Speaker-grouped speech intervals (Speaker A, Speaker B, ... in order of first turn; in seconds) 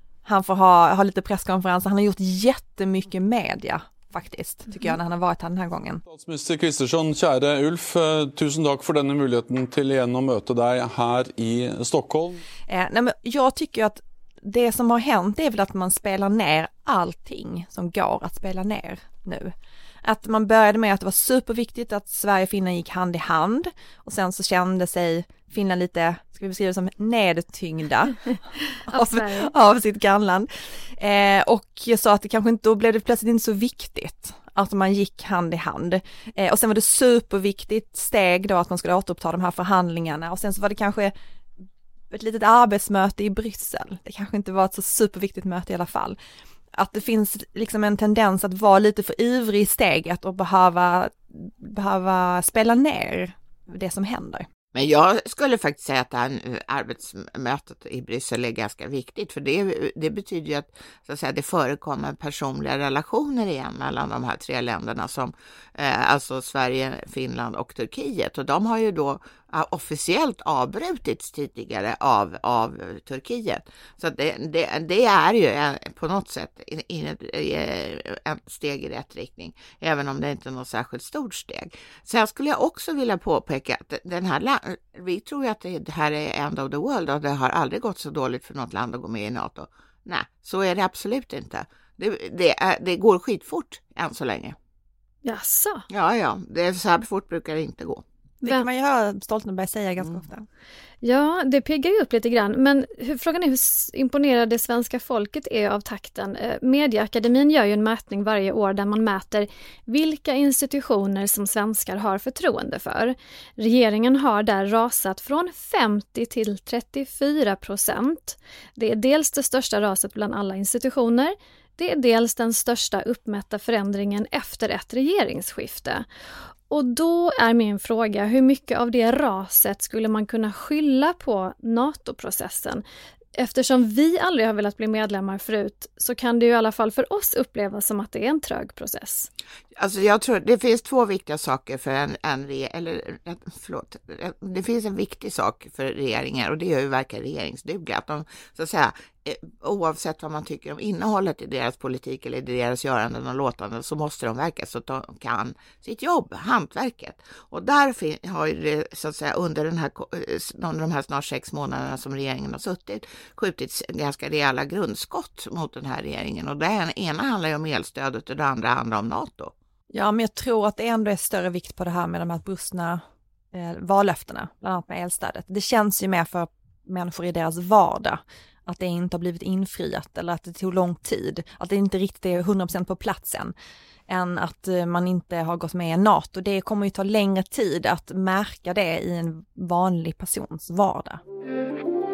Speaker A: 0.2-6.0, 12.7-28.2, 28.9-41.1, 42.1-46.2, 46.7-54.5, 98.4-100.5, 169.9-183.5, 184.1-191.2
Speaker B: 4.7-5.0, 28.7-29.5, 95.2-95.8, 101.0-126.1, 126.7-132.8, 133.4-139.3
Speaker C: 6.1-12.4
Speaker D: 54.7-94.6, 95.9-98.0, 139.8-169.5